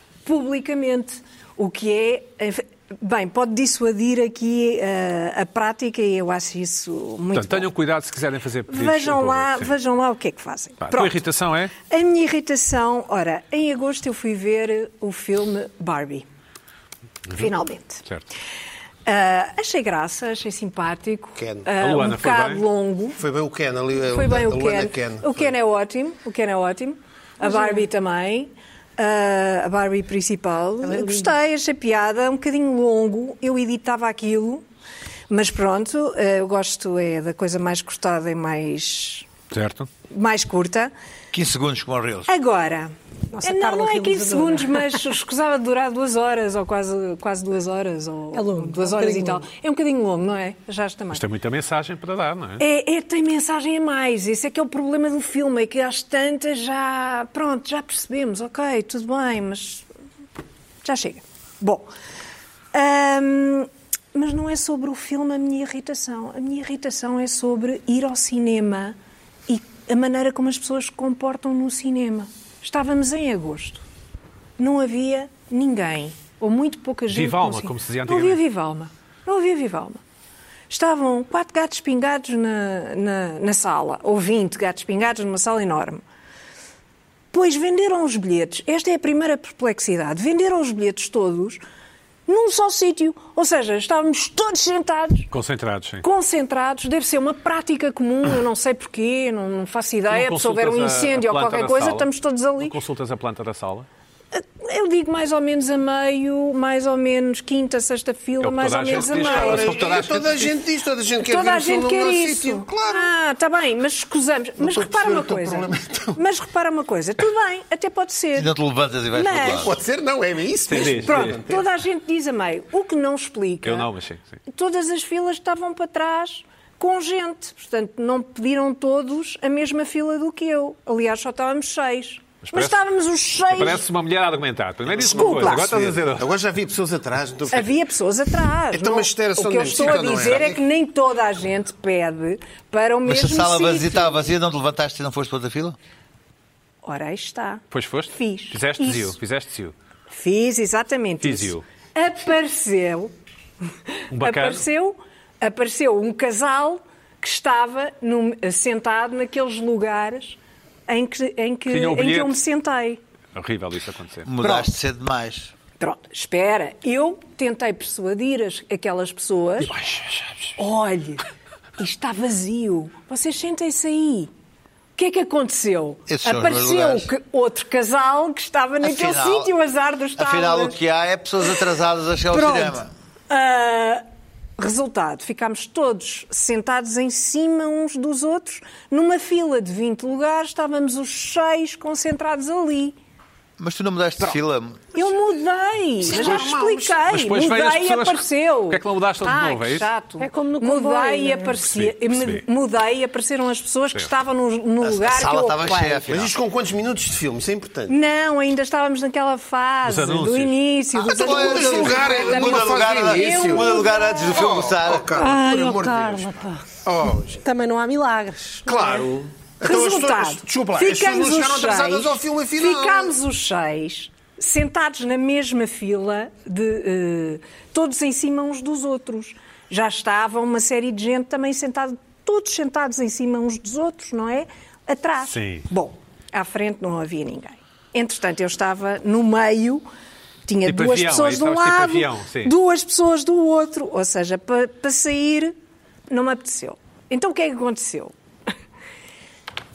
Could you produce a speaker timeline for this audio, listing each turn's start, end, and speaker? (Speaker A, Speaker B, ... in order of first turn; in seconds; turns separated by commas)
Speaker A: 0.2-7.7, Speaker B: 7.3-9.7, Speaker A: 8.7-11.2, Speaker B: 10.8-11.7, Speaker A: 11.8-16.2, Speaker A: 17.3-18.0, Speaker A: 19.1-23.2, Speaker C: 21.4-21.7, Speaker B: 21.8-22.6, Speaker C: 23.2-25.5, Speaker A: 24.0-34.6, Speaker D: 30.8-31.4, Speaker A: 35.3-39.3, Speaker B: 39.5-39.9, Speaker A: 40.1-40.9, Speaker E: 41.3-42.3, Speaker A: 42.3-51.2, Speaker D: 43.3-45.0, Speaker D: 48.3-49.4, Speaker B: 51.1-52.6, Speaker A: 52.6-59.9, Speaker A: 60.8-61.9, Speaker A: 62.7-69.0, Speaker A: 69.5-73.8, Speaker A: 74.6-80.0, Speaker B: 77.1-78.4, Speaker A: 80.7-86.0, Speaker A: 87.3-91.6, Speaker A: 92.3-95.3, Speaker B: 95.3-96.0, Speaker A: 96.0-102.7, Speaker B: 100.1-102.1, Speaker B: 102.6-103.9, Speaker A: 104.3-110.0, Speaker B: 108.4-110.5, Speaker C: 108.9-113.1, Speaker A: 111.2-118.5, Speaker C: 114.6-116.2, Speaker E: 118.3-119.8, Speaker A: 119.1-119.7, Speaker C: 119.4-121.6, Speaker B: 120.7-121.4, Speaker A: 120.7-123.9, Speaker B: 123.6-124.3, Speaker A: 124.5-133.8, Speaker B: 132.4-132.8, Speaker B: 133.5-136.3, Speaker C: 134.9-137.7, Speaker A: 135.0-135.7, Speaker A: 137.5-144.3, Speaker C: 138.7-140.6, Speaker E: 143.0-145.8, Speaker A: 146.8-149.1, Speaker B: 147.7-149.7, Speaker A: 150.1-153.1, Speaker B: 151.2-151.6, Speaker A: 153.9-163.0, Speaker B: 154.1-154.6, Speaker B: 161.7-162.4, Speaker B: 163.3-164.3, Speaker E: 164.2-165.5, Speaker A: 165.8-169.7, Speaker B: 169.6-170.6, Speaker A: 170.6-171.2, Speaker A: 171.8-174.3, Speaker A: 174.9-180.8, Speaker E: 176.1-177.1, Speaker E: 178.8-179.5, Speaker E: 180.2-182.9, Speaker A: 182.3-184.0, Speaker A: 184.6-192.9, Speaker E: 193.6-194.9, Speaker A: 194.9-206.1, Speaker C: 196.0-197.0, Speaker B: 196.1-196.5, Speaker B: 197.1-199.9, Speaker D: 200.2-201.6, Speaker B: 201.7-202.4, Speaker E: 204.8-206.3, Speaker C: 206.1-207.9, Speaker A: 207.9-214.4, Speaker B: 209.8-210.5, Speaker E: 211.0-215.1, Speaker C: 211.0-217.4, Speaker D: 215.2-216.6, Speaker D: 217.4-219.1, Speaker C: 218.7-223.1, Speaker A: 219.6-239.8, Speaker B: 235.2-235.7, Speaker A: 240.4-245.5, Speaker B: 240.6-242.5, Speaker A: 246.1-248.1